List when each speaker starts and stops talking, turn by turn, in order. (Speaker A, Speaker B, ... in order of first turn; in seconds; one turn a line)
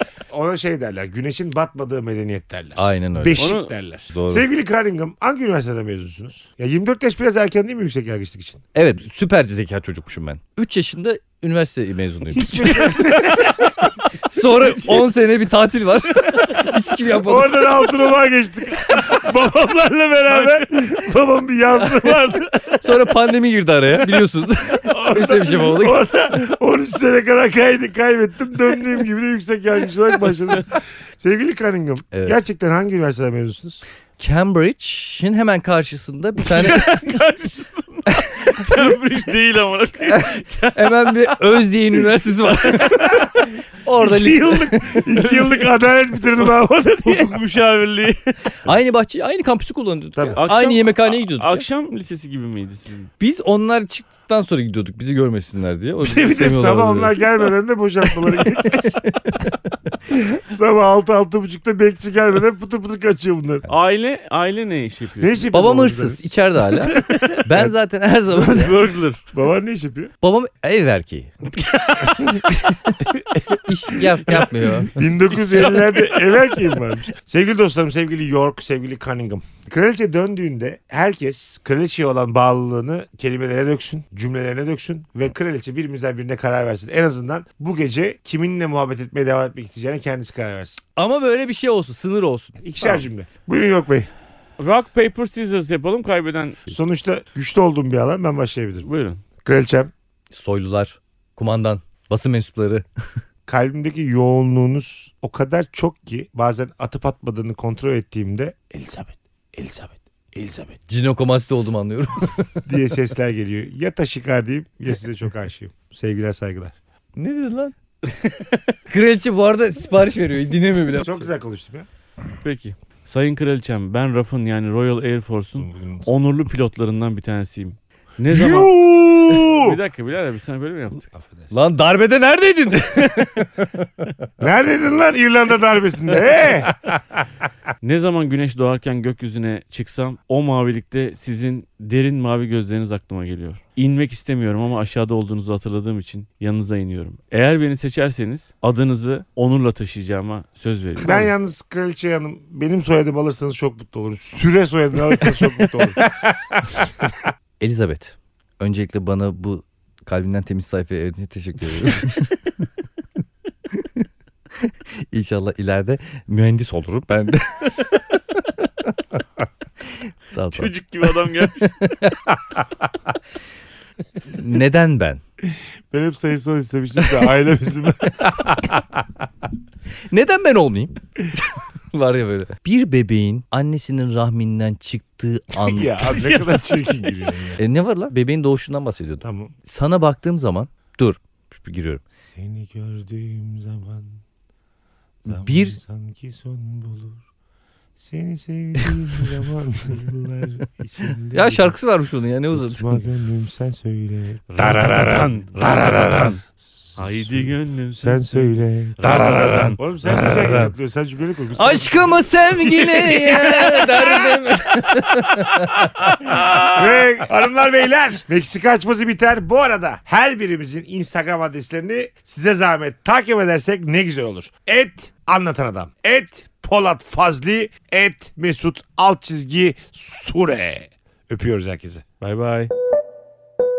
Speaker A: 0.3-8.6
Speaker B: 2.8-3.4
Speaker C: 3.4-3.7
Speaker B: 4.1-4.5
Speaker B: 8.7-13.7
Speaker A: 12.3-15.0
Speaker B: 14.2-17.9
Speaker A: 16.4-23.0
Speaker C: 20.3-20.6
Speaker B: 21.8-26.0
Speaker A: 24.8-33.8
Speaker B: 34.2-37.0
Speaker C: 36.4-41.3
Speaker B: 40.1-45.1
Speaker A: 44.0-47.4
Speaker C: 45.1-45.8
Speaker C: 47.0-48.6
Speaker B: 48.6-51.6
Speaker C: 50.4-53.1
Speaker B: 53.2-57.2
Speaker A: 56.0-59.4
Speaker B: 58.7-59.6
Speaker A: 60.1-63.6
Speaker C: 63.7-65.5
Speaker A: 65.2-67.7
Speaker B: 65.5-68.8
Speaker C: 68.3-69.2
Speaker A: 68.4-68.7
Speaker A: 69.3-70.1
Speaker B: 70.2-71.4
Speaker C: 71.6-72.5
Speaker B: 73.6-75.0
Speaker A: 74.4-90.8
Speaker C: 75.3-76.7
Speaker B: 91.0-92.6
Speaker A: 92.6-94.1
Speaker C: 94.6-96.7
Speaker A: 96.7-98.9
Speaker C: 98.8-99.2
Speaker A: 99.4-99.9
Speaker B: 100.3-102.8
Speaker A: 103.5-110.8
Speaker B: 110.9-112.6
Speaker A: 112.7-116.7
Speaker B: 117.2-117.7
Speaker C: 118.1-118.7
Speaker B: 118.9-121.3
Speaker A: 120.9-121.9
Speaker C: 122.4-128.7
Speaker A: 125.6-126.1
Speaker A: 128.3-129.8
Speaker C: 129.2-131.0
Speaker A: 131.1-131.5
Speaker B: 131.5-134.1
Speaker A: 134.4-136.7
Speaker C: 137.8-151.3
Speaker A: 151.0-156.0
Speaker B: 156.0-156.3
Speaker B: 157.6-162.7
Speaker B: 163.7-168.2
Speaker B: 169.8-172.5
Speaker C: 170.5-171.7
Speaker B: 174.3-175.2
Speaker A: 175.9-178.7
Speaker B: 178.2-178.6
Speaker B: 180.1-186.2
Speaker A: 185.6-187.6
Speaker C: 186.1-186.9
Speaker B: 187.6-192.0
Speaker A: 189.2-189.5
Speaker A: 192.3-194.2
Speaker B: 195.2-195.8
Speaker A: 195.3-197.2
Speaker A: 198.0-201.7
Speaker B: 198.8-199.2
Speaker B: 201.3-203.1
Speaker A: 202.5-206.4
Speaker C: 204.5-206.3
Speaker B: 204.7-205.0
Speaker B: 205.6-206.3
Speaker A: 206.9-207.5
Speaker C: 206.9-208.5
Speaker A: 208.0-214.4
Speaker B: 209.0-210.7
Speaker C: 209.1-209.7
Speaker B: 211.5-216.8
Speaker A: 216.6-232.0
Speaker C: 232.2-232.7